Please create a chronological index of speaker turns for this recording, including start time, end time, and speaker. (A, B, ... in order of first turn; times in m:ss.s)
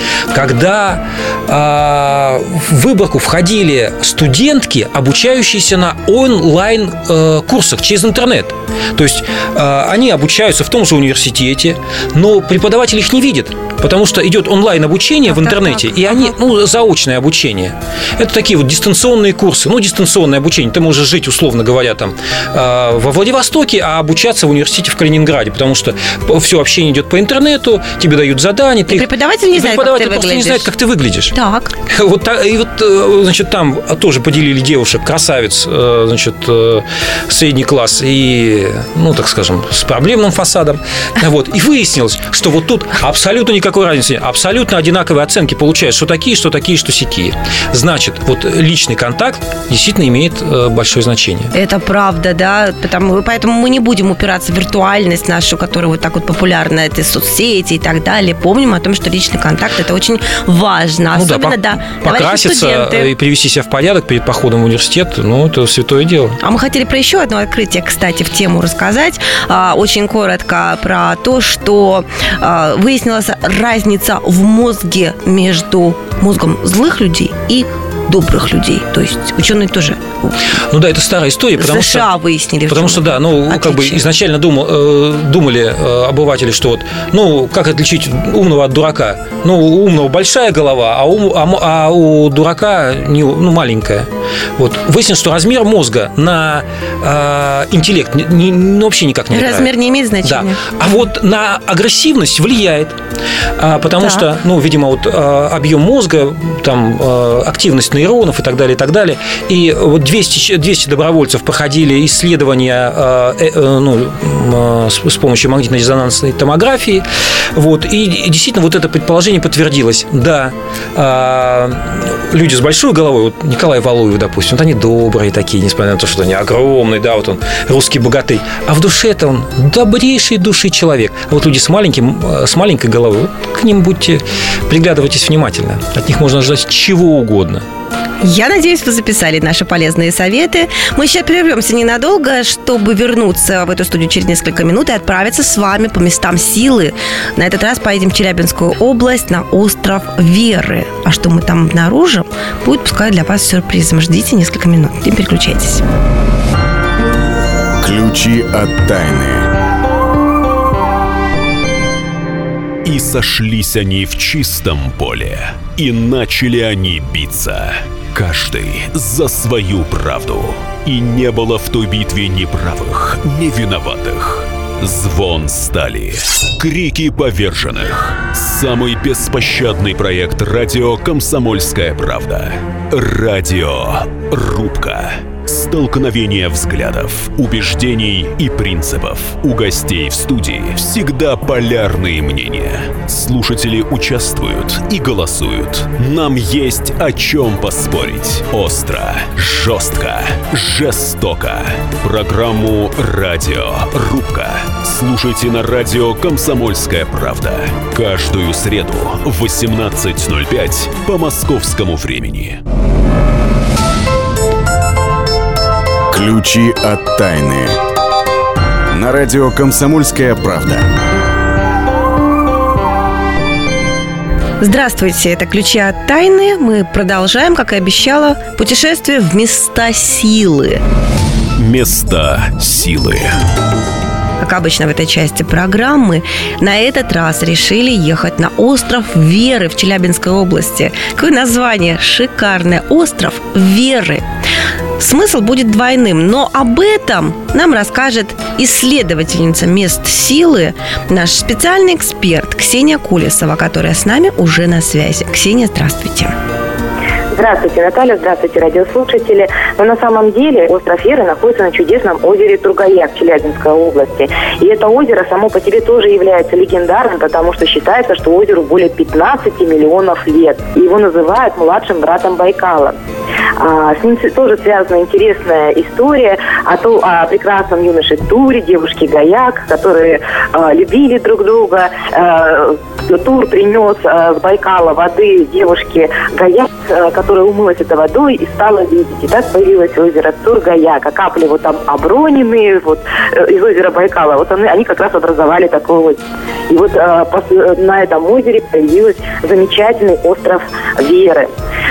0:00.3-0:31.3 A
0:15.2-0:16.3 B
0:28.9-0:30.7 B
0:31.3-0:31.7 B
0:31.9-0:51.5 A
0:51.5-1:03.1 B
1:01.1-1:06.4 A
1:06.4-1:20.4 B
1:20.7-1:22.1 A
1:21.6-1:24.0 B
1:22.7-1:39.7 A
1:39.3-1:40.6 B
1:40.2-1:43.0 A
1:43.6-2:17.6 A
1:44.0-1:44.3 B
2:18.2-2:35.8 B
2:37.8-2:39.5 C
2:42.8-3:32.6 D
3:36.1-3:37.8 C
3:38.9-3:40.9 C
3:44.6-3:50.8 B
3:51.6-3:53.3 D
3:54.4-4:04.2 B
4:05.0-4:16.3 B
4:17.3-4:32.9 E
4:33.6-5:01.5 E